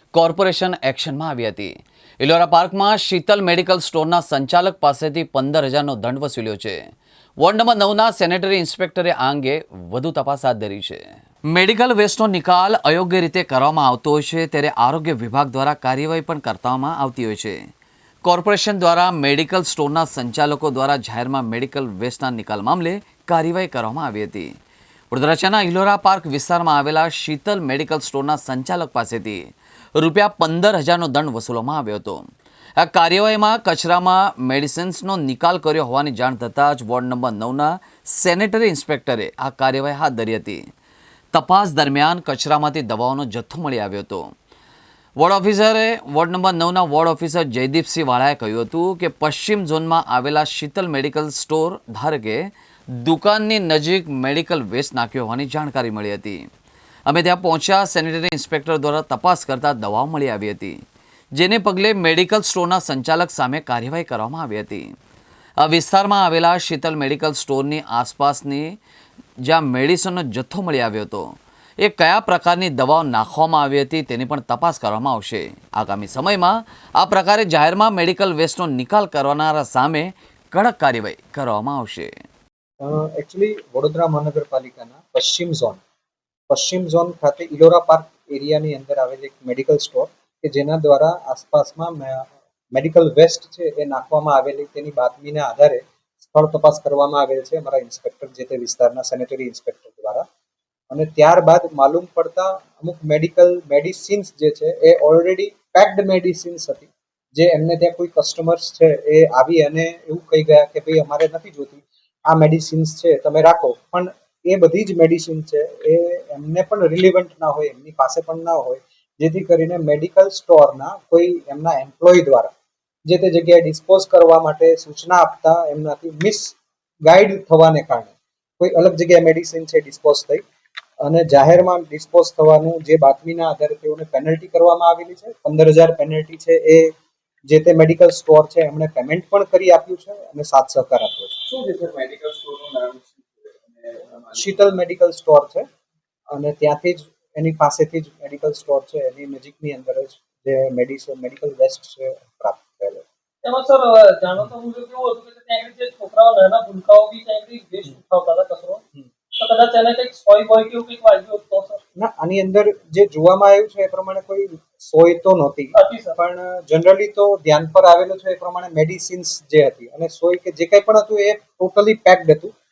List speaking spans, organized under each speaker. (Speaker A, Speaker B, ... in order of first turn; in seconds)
Speaker A: 0.1-6.8, 7.4-17.6, 18.2-24.5, 25.1-29.4, 29.9-32.2, 32.8-40.6, 41.3-44.2, 45.2-56.4, 57.0-60.8, 61.3-64.9, 65.6-68.7, 69.4-71.2, 71.8-82.1
Speaker B: 82.8-85.8, 86.5-100.2, 100.9-122.5, 123.0-130.4, 131.0-136.9, 137.5-141.3, 144.3-145.6, 146.3-153.0, 161.9-172.5
Speaker C: 141.4-144.7
Speaker D: 153.4-158.8, 159.4-161.8, 165.7-166.2